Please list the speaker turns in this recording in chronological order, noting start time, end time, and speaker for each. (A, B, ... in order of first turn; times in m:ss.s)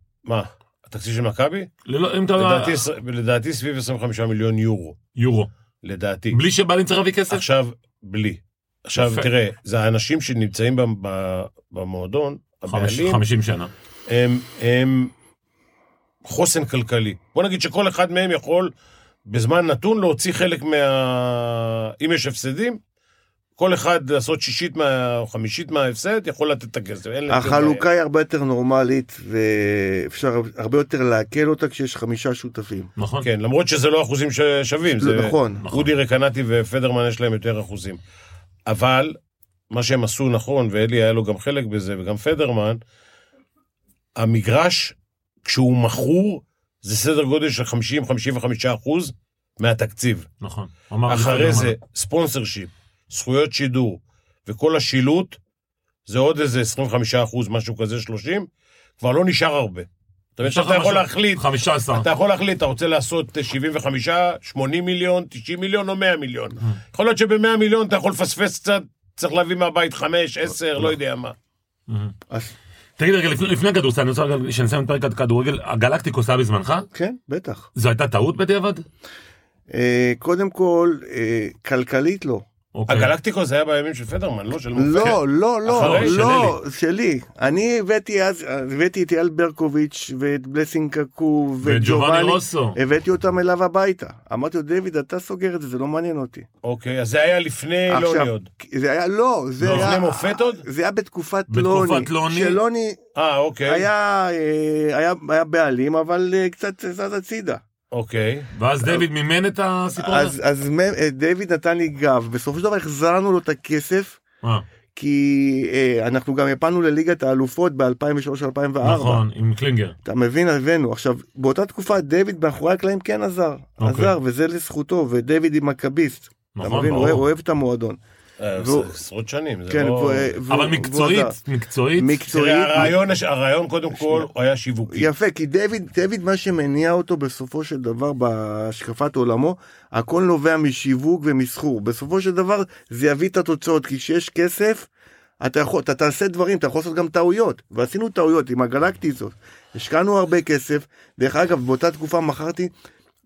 0:00.3-0:01.7 A
0:01.9-0:02.8 B
0:02.4-0:05.0 A
0:05.2-0:05.5 B
0:05.8-0:06.4 A
0:06.3-0:07.4 B
0:07.3-0:13.2 A
0:09.0-0:09.3 B
0:12.7-0:13.7 B
0:14.1-0:15.1 A
0:16.2-0:18.7 A
0:19.3-0:22.8 A
0:23.6-0:27.8 A
0:27.3-0:32.9 C
0:33.0-0:33.3 B
0:33.2-0:38.0 A
0:35.0-0:35.6 C
0:35.6-0:35.9 B
0:38.7-0:39.2 A
0:39.7-0:42.8 A
0:44.2-0:50.3 A
0:50.4-0:51.8 B
0:51.1-0:55.4 A
0:56.1-0:58.5 A
0:59.0-1:11.4 A
1:00.4-1:02.1 B
1:11.9-1:12.2 B
1:13.0-1:16.9 B
1:16.9-1:17.7 C
1:17.8-1:18.8 B
1:19.7-1:22.5 C
1:22.7-1:23.1 B
1:22.9-1:26.5 A
1:24.8-1:36.5 C
1:25.7-1:26.6 B
1:31.6-1:32.8 B
1:36.6-1:38.5 A
1:37.9-1:43.0 C
1:39.6-1:39.9 B
1:39.6-1:40.6 A
1:41.5-1:42.6 B
1:43.2-1:43.9 A
1:43.7-1:47.6 C
1:47.9-1:48.5 A
1:48.5-1:50.4 B
1:50.0-1:54.2 C
1:55.0-1:59.2 C
1:58.8-2:00.0 B
2:00.0-2:08.0 C
2:03.8-2:04.1 B
2:06.6-2:07.2 B
2:08.4-2:10.4 A
2:08.6-2:08.9 C
2:09.7-2:11.4 C
2:10.5-2:12.2 B
2:12.0-2:13.0 C
2:12.3-2:15.1 A
2:14.0-2:14.3 C
2:14.9-2:24.9 C
2:25.4-2:32.7 C